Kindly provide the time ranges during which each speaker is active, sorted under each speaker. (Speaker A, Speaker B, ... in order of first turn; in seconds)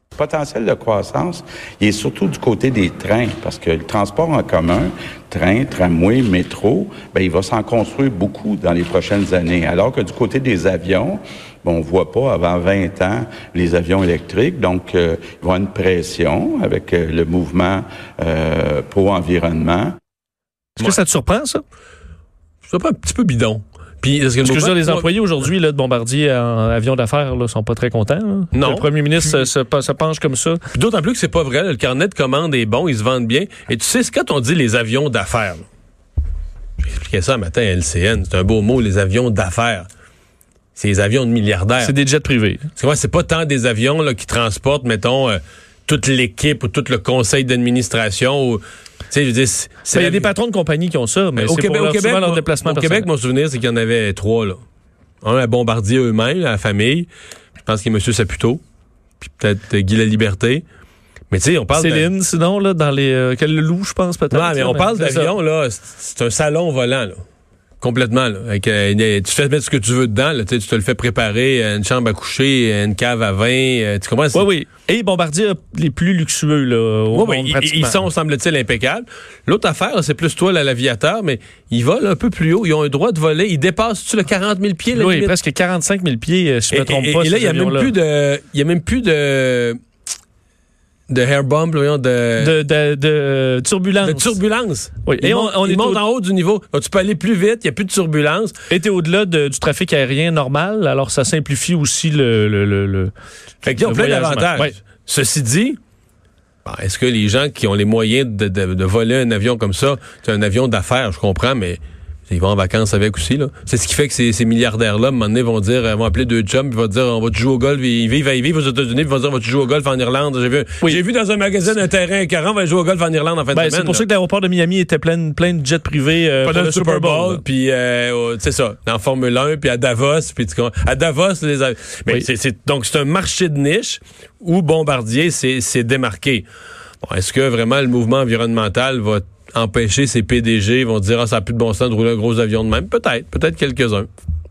Speaker A: 0.2-20.0
Speaker B: 20.8-21.6, 24.4-30.6, 41.8-42.6, 49.9-53.1, 61.8-65.3, 74.3-78.0, 84.9-87.9, 92.4-94.4, 95.0-96.0, 98.7-103.1, 103.8-104.8, 123.5-127.4
Speaker C: 22.7-25.1, 28.5-29.5, 30.7-35.6, 36.8-39.9, 40.8-41.9, 42.8-50.3, 51.4-54.6, 55.2-57.1, 57.7-58.6, 59.2-60.6, 61.3-62.1, 64.3-67.2, 67.8-74.5, 77.1-85.3, 86.7-89.8, 91.1-92.5, 94.0-98.5, 103.7-105.8, 106.7-124.0, 126.4-136.5, 137.0-144.1